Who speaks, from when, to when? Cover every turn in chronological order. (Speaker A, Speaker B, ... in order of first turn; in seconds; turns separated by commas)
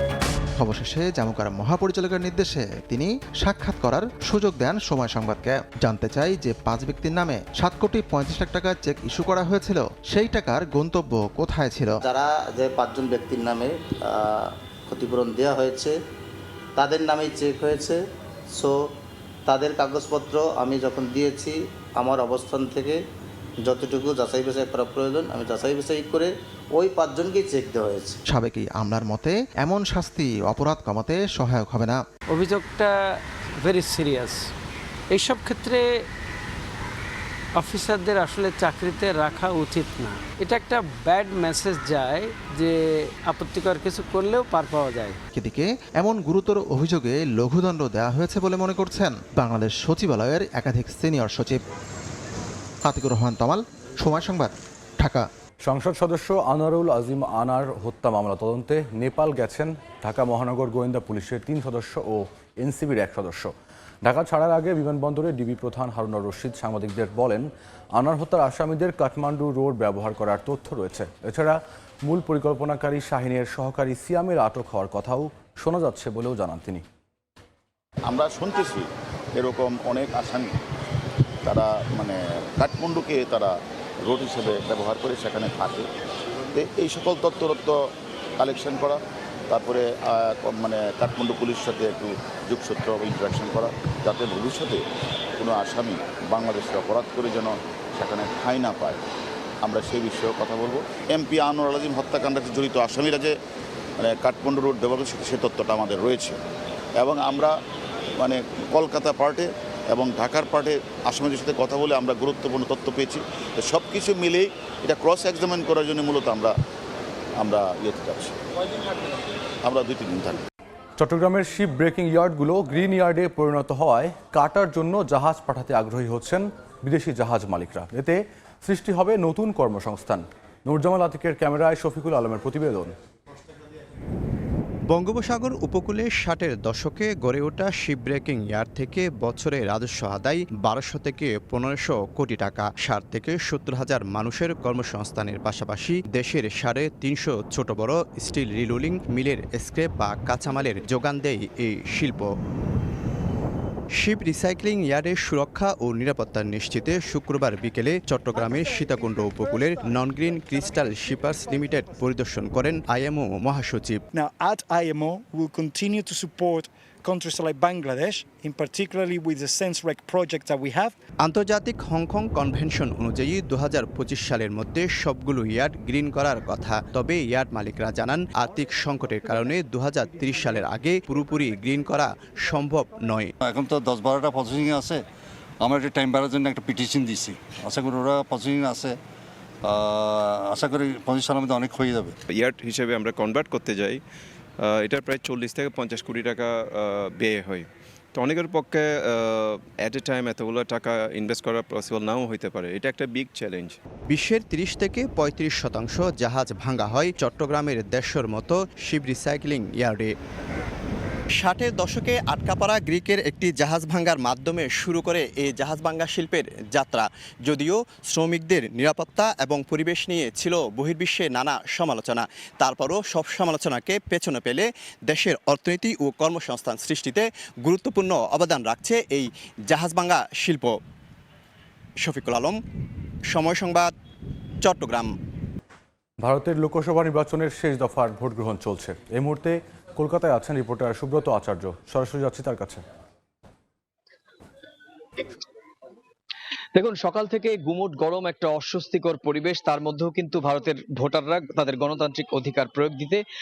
Speaker A: 0.6-12.0, Speaker B: 12.1-15.9, Speaker B: 16.8-18.0, Speaker B: 19.5-23.0, Speaker B: 23.7-28.2, Speaker A: 28.3-32.0, Speaker C: 32.3-32.9, Speaker C: 33.6-34.4, Speaker C: 35.1-35.8, Speaker C: 37.6-45.2, Speaker A: 45.3-51.6, Speaker A: 52.9-55.3, Speaker D: 55.6-76.8, Speaker E: 78.1-78.9, Speaker E: 79.4-80.5, Speaker E: 81.5-83.5, Speaker E: 84.1-85.9, Speaker E: 86.5-87.8, Speaker E: 88.4-94.8, Speaker E: 95.4-99.0, Speaker E: 99.6-103.3, Speaker E: 104.0-106.4, Speaker E: 107.0-107.6, Speaker E: 108.2-116.5, Speaker E: 117.4-118.4, Speaker E: 119.7-120.4, Speaker D: 121.0-132.9, Speaker F: 134.9-152.3, Speaker F: 153.9-164.1, Speaker G: 164.1-170.9, Speaker F: 171.2-183.3, Speaker H: 183.4-185.0, Speaker H: 185.6-189.0, Speaker H: 189.6-192.2, Speaker I: 192.3-194.0, Speaker I: 194.6-203.8, Speaker F: 204.1-210.1, Speaker F: 211.4-230.8, Speaker F: 232.0-232.6, Speaker F: 233.3-233.9, Speaker F: 234.6-235.1, Speaker D: 236.2-242.8, Speaker J: 246.8-253.2